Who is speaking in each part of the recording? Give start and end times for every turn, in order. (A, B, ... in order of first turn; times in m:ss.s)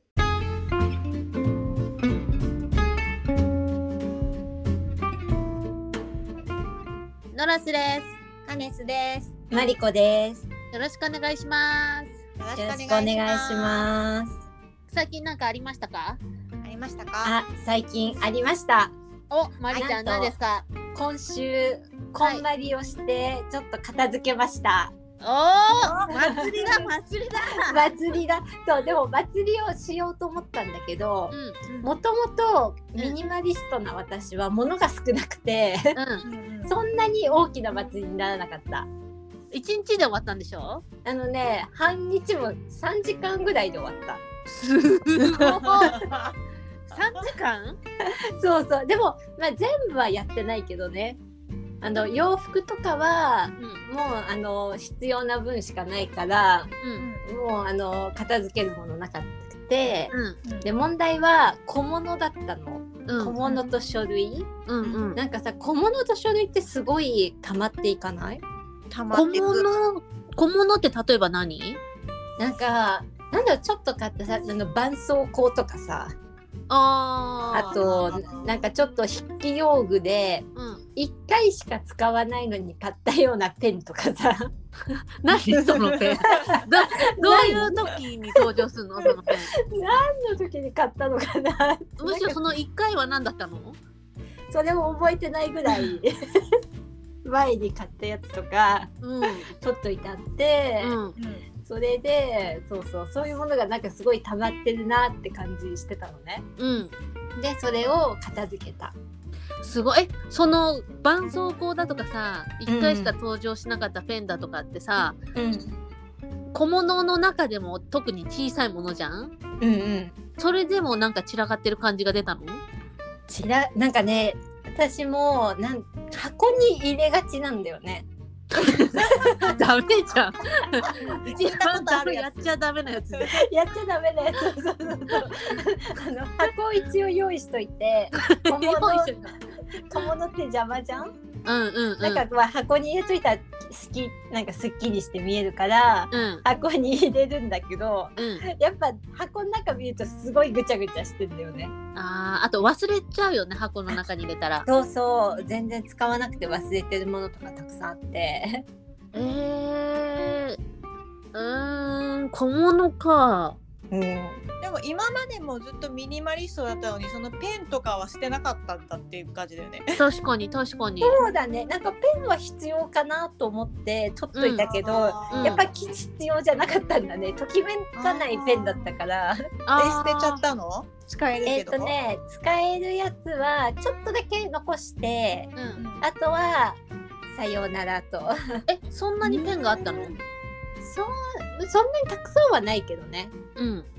0:07.3-0:08.1 A
0:08.4-0:09.4 B
0:09.5-0:10.5 C
0:10.7-0:12.2 A
0:12.4-0:13.9 B
0:12.6-0:14.4 C
0:14.9-0:16.2 A
0:16.6-0:17.4 B
0:17.2-0:18.9 C
0:19.3-0:20.7 A
0:19.7-0:20.3 C
0:20.9-0:24.9 C
0:22.2-0:22.4 A
0:25.2-0:27.9 A
0:25.8-0:26.9 B
0:26.1-0:26.4 C
0:27.6-0:36.0 C
0:31.3-0:31.6 A
0:31.7-0:31.9 B
0:36.0-0:36.3 A
0:36.2-0:36.8 B
0:36.6-0:38.9 C
0:39.5-0:40.8 A
0:41.0-0:44.2 C
0:44.5-0:46.1 A
0:45.3-0:46.3 B
0:46.9-0:47.8 A
0:46.9-0:47.2 B
0:48.0-0:51.2 C
0:51.8-1:04.5 C
0:53.6-0:53.8 A
0:56.8-0:57.1 A
0:57.0-0:57.2 B
1:00.1-1:00.4 A
1:03.1-1:03.4 A
1:04.7-1:05.2 A
1:05.2-1:08.4 C
1:08.9-1:09.7 B
1:09.1-1:11.8 A
1:12.4-1:16.2 C
1:16.7-1:17.8 A
1:17.4-1:18.6 B
1:17.5-1:24.5 C
1:20.6-1:20.8 A
1:25.2-1:29.5 A
1:25.3-1:28.4 C
1:25.6-1:26.6 B
1:29.0-1:32.4 C
1:32.0-1:33.8 A
1:34.5-1:36.5 C
1:37.2-1:41.0 C
1:39.0-1:39.5 A
1:40.8-1:41.2 A
1:41.2-1:41.4 B
1:41.6-1:46.4 C
1:46.6-1:46.9 A
1:47.4-1:49.0 C
1:49.6-1:55.2 A
1:52.7-1:53.1 C
1:55.4-1:55.7 C
1:56.5-1:59.3 A
1:59.6-2:00.2 C
2:00.4-2:02.6 A
2:03.3-2:09.6 C
2:08.6-2:13.4 A
2:10.6-2:11.2 C
2:11.0-2:12.5 B
2:13.3-2:21.2 C
2:18.2-2:19.4 A
2:21.4-2:22.2 A
2:22.0-2:31.7 C
2:26.1-2:26.4 A
2:28.2-2:28.4 A
2:32.0-2:34.7 A
2:34.7-2:38.6 C
2:39.1-2:40.6 A
2:41.3-2:43.6 A
2:43.9-2:44.4 C
2:44.6-2:50.1 B
2:50.0-2:51.2 A
2:51.0-2:59.5 C
2:54.4-2:54.7 A
2:54.6-2:55.7 B
2:55.3-2:55.6 A
2:58.0-2:58.9 B
2:59.7-3:00.4 A
2:59.8-3:01.9 B
3:01.4-3:06.8 C
3:05.6-3:05.8 A
3:05.8-3:06.0 B
3:07.3-3:08.6 C
3:08.7-3:10.1 A
3:09.2-3:10.2 B
3:10.8-3:13.3 C
3:13.6-3:13.9 A